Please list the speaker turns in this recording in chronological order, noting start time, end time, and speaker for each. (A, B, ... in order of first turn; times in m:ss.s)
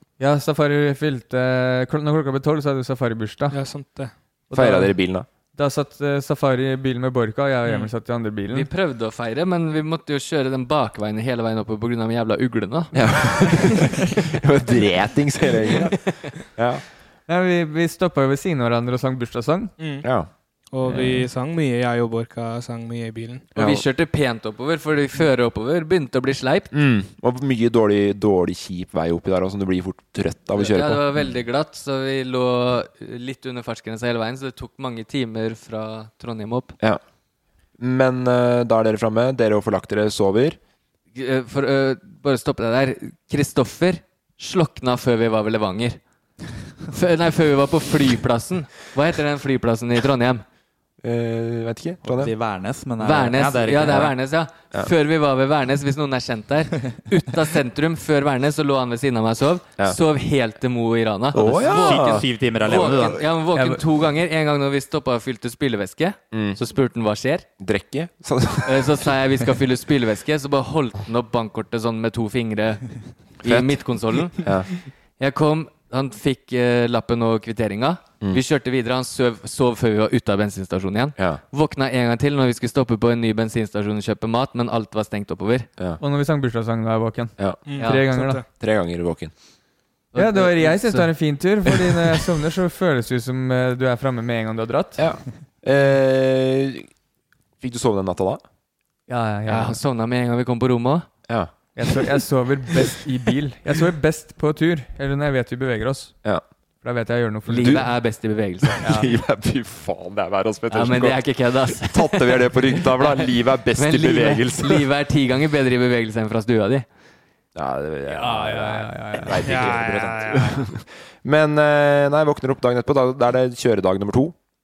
0:00.2-0:03.6 A
0:03.5-0:04.1 B
0:04.5-0:05.0 A
0:04.5-0:05.3 C
0:05.5-0:08.7 A
0:08.5-0:13.9 D
0:12.9-0:16.8 C
0:17.3-0:19.7 A
0:19.8-0:20.1 B
0:20.0-0:20.3 C
0:20.7-0:23.5 B
0:20.9-0:21.3 C
0:23.6-0:26.7 D
0:23.6-0:23.8 C
0:26.7-0:31.0 C
0:30.6-0:36.7 D
0:37.8-0:40.6 C
0:41.2-0:46.0 D
0:46.9-0:50.4 D
0:51.0-0:52.3 C
0:52.0-0:54.1 E
0:53.0-1:07.5 D
1:01.3-1:03.0 C
1:01.4-1:03.3 E
1:03.6-1:03.8 A
1:06.3-1:06.6 C
1:07.6-1:09.1 C
1:08.7-1:14.5 D
1:13.4-1:14.7 C
1:15.2-1:25.7 D
1:26.0-1:28.4 A
1:27.7-1:28.4 B
1:28.5-1:29.3 C
1:30.1-1:31.1 D
1:30.2-1:35.0 A
1:35.0-1:36.9 C
1:37.6-1:38.4 C
1:39.1-1:39.8 A
1:39.5-1:41.1 D
1:41.8-1:46.2 A
1:46.8-1:47.9 A
1:47.5-1:48.8 D
1:47.6-1:47.9 C
1:48.6-1:54.9 C
1:50.7-1:56.9 D
1:57.6-2:04.4 C
1:58.1-1:59.6 A
1:59.4-2:00.7 B